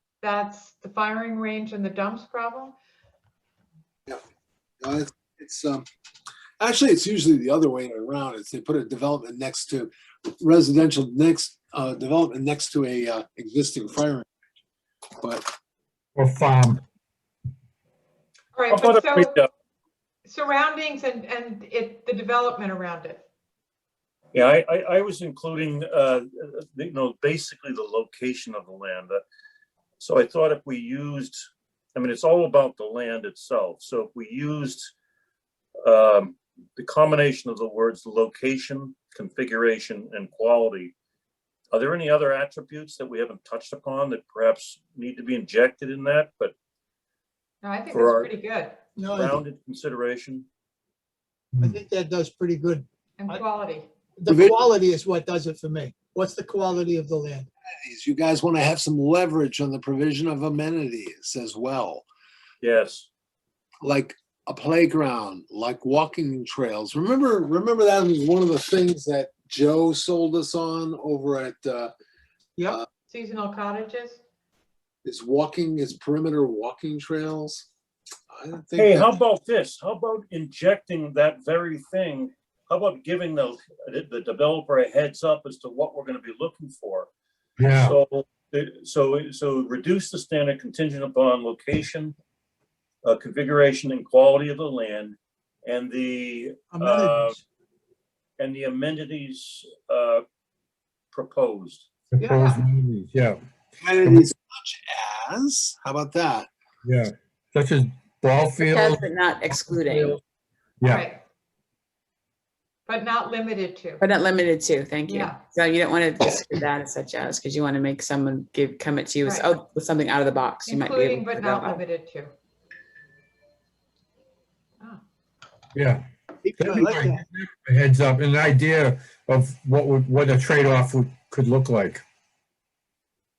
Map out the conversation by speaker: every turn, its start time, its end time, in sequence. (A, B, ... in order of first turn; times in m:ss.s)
0:00.2-0:02.8 A
0:04.8-0:05.8 B
0:06.6-0:14.3 B
0:15.2-0:15.4 B
0:16.1-0:16.8 C
0:18.5-0:19.4 A
0:18.7-0:19.5 D
0:20.2-0:23.2 A
0:24.3-0:29.2 D
0:30.0-0:31.4 D
0:32.0-0:34.9 D
0:35.8-0:40.9 D
0:41.7-0:46.5 D
0:47.6-0:48.8 A
0:47.9-0:48.3 D
0:49.0-0:49.4 E
0:49.1-0:50.5 D
0:51.6-0:53.4 E
0:53.2-0:53.9 A
0:54.2-0:57.5 E
0:54.3-0:54.6 B
0:57.7-1:02.1 B
1:02.6-1:03.1 D
1:03.8-1:11.9 B
1:13.1-1:14.2 A
1:15.0-1:17.7 B
1:18.3-1:19.2 B
1:18.8-1:27.1 D
1:27.6-1:28.0 C
1:27.8-1:32.2 D
1:33.0-1:37.4 D
1:36.7-1:37.4 E
1:38.4-1:40.2 D
1:41.1-1:41.9 D
1:42.1-1:43.4 C
1:42.2-1:42.6 E
1:43.8-1:46.5 B
1:44.0-1:44.3 C
1:46.8-1:50.2 C
1:48.6-1:50.2 F
1:50.8-1:51.1 C
1:50.8-1:51.2 A
1:52.9-1:54.1 A
1:54.0-2:01.8 F
1:55.1-1:55.4 A
1:59.2-1:59.6 A
2:00.7-2:02.3 A
2:05.8-2:06.0 C
2:06.4-2:07.2 E
2:06.6-2:12.0 C